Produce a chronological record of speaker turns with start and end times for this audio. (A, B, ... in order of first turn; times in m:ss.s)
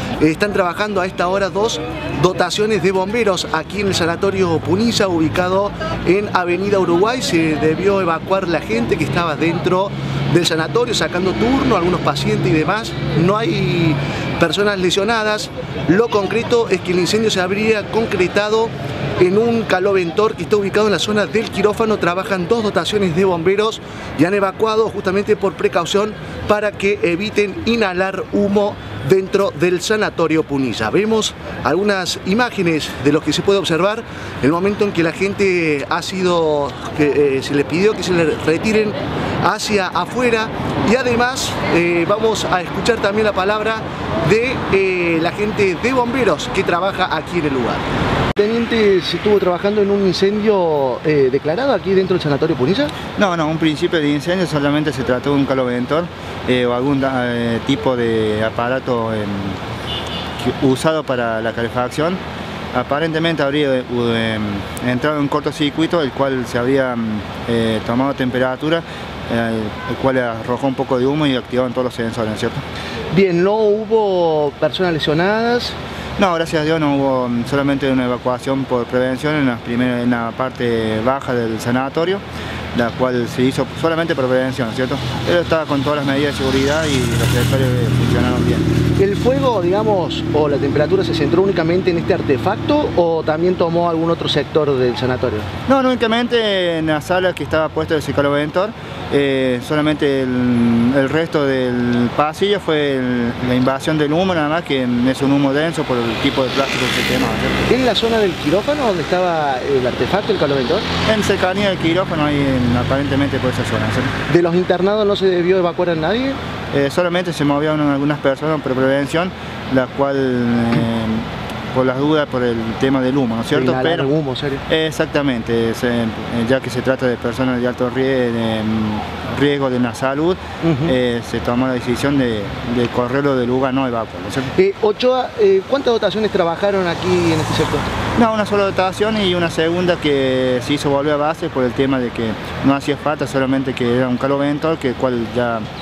0:00.2-0:47.8 A
0:48.4-0:52.9 A
0:53.2-0:59.6 B
1:00.4-1:02.2 B
1:02.7-1:12.6 B
1:13.1-1:15.8 A
1:16.2-1:22.2 B
1:22.7-1:28.6 B
1:29.0-1:35.5 A
1:35.7-1:47.5 B
1:47.7-1:50.9 A
1:51.0-1:54.1 B
1:54.3-1:56.4 A
1:56.7-2:04.1 B
2:03.5-2:04.6 A
2:04.7-2:14.5 B
2:10.6-2:10.9 A
2:14.5-2:17.9 A
2:18.2-2:25.6 B